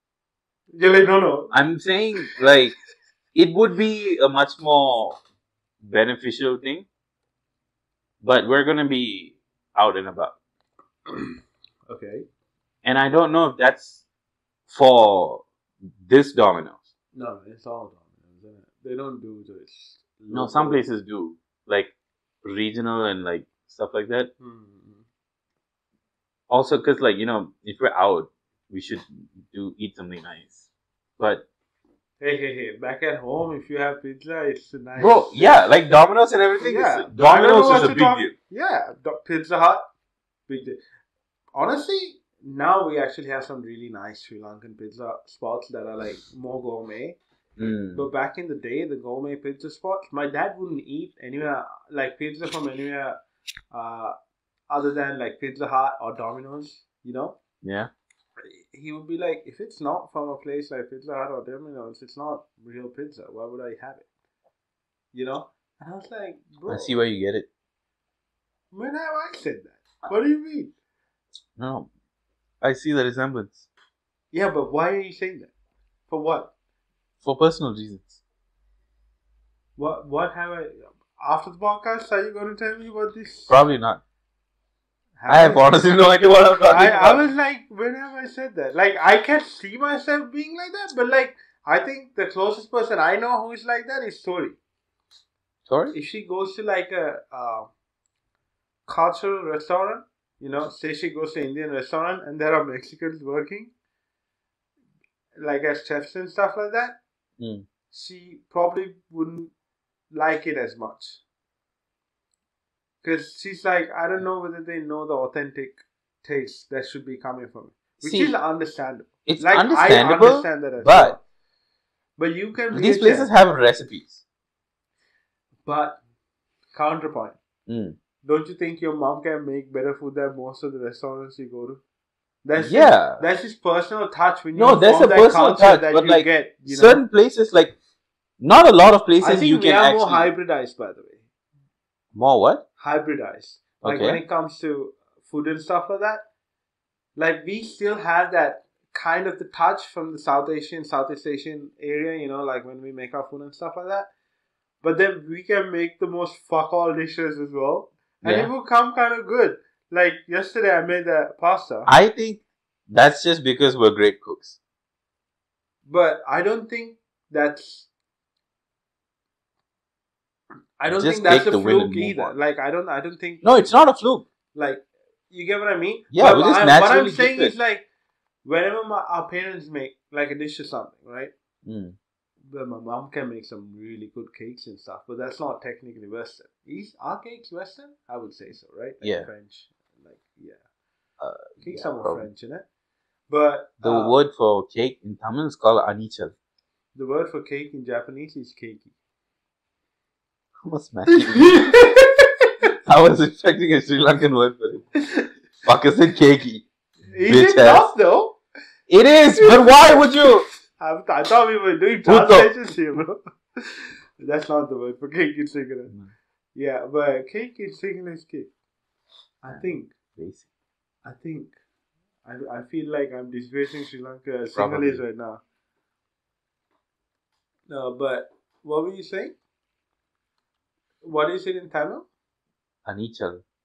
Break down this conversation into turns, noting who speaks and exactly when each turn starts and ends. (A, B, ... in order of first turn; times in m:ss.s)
0:00.7-0:01.5 A
0:01.5-0:02.7 B
0:03.4-0:05.2 B
0:05.8-0:06.9 B
0:08.2-0:10.4 B
0:11.1-0:12.3 A
0:12.8-0:14.0 B
0:14.7-0:15.4 B
0:16.0-0:16.9 B
0:17.1-0:20.8 A
0:20.3-0:24.3 B
0:24.4-0:25.0 A
0:26.5-0:31.5 B
0:32.2-0:35.5 A
0:35.0-0:38.3 B
0:36.6-0:39.9 A
0:40.5-0:40.8 A
0:41.6-0:47.2 A
0:47.6-0:48.1 B
0:47.9-0:53.2 A
0:53.7-0:54.2 A
0:54.7-0:57.4 A
0:57.6-0:57.9 B
0:58.4-1:04.1 A
1:05.1-1:06.9 A
1:06.7-1:07.5 B
1:08.7-1:10.7 A
1:11.6-1:11.9 B
1:12.6-1:13.7 B
1:14.3-1:15.5 A
1:16.1-1:16.5 A
1:17.2-1:18.2 B
1:19.8-1:23.6 A
1:23.5-1:24.0 B
1:25.2-1:25.8 A
1:25.3-1:27.2 B
1:26.7-1:34.6 A
1:35.7-1:36.0 B
1:35.9-1:37.7 A
1:38.9-1:43.7 A
1:45.4-1:47.0 A
1:47.4-1:47.7 B
1:47.9-1:49.5 A
1:50.1-1:51.2 A
1:53.0-2:01.2 A
1:58.0-1:58.3 B
1:59.3-2:01.2 B
2:02.2-2:03.3 A
2:02.7-2:04.2 B
2:05.6-2:06.0 A
2:06.7-2:07.4 A
2:07.7-2:08.0 B
2:08.2-2:11.8 A
2:12.4-2:17.0 A
2:12.6-2:13.2 B
2:14.6-2:17.8 B
2:18.4-2:20.3 B
2:19.2-2:21.2 A
2:22.1-2:22.6 B
2:22.8-2:26.3 A
2:23.8-2:24.2 B
2:27.2-2:34.1 A
2:34.8-2:41.9 A
2:38.2-2:38.5 B
2:41.9-2:44.6 B
2:45.9-2:47.9 A
2:50.8-2:53.4 A
2:50.9-2:52.3 B
2:53.4-2:54.2 B
2:54.5-2:57.9 A
2:56.1-2:57.5 B
2:58.4-3:01.3 A
3:01.6-3:02.0 B
3:02.4-3:10.6 A
3:09.0-3:09.3 B
3:11.2-3:12.3 B
3:11.6-3:12.6 A
3:13.3-3:14.2 A
3:13.8-3:16.3 B
3:17.0-3:18.9 A
3:20.6-3:21.7 B
3:21.1-3:22.5 A
3:22.8-3:24.9 B
3:25.6-3:26.7 B
3:27.1-3:28.4 A
3:27.3-3:27.9 B
3:28.9-3:30.5 B
3:29.4-3:35.9 A
3:32.0-3:32.5 B
3:36.6-3:38.5 A
3:39.4-3:39.9 A
3:39.5-3:40.5 B
3:41.0-3:41.5 A
3:42.2-3:45.4 A
3:44.5-3:45.0 B
3:47.7-3:49.4 A
3:51.0-3:52.1 A
3:52.9-3:53.4 B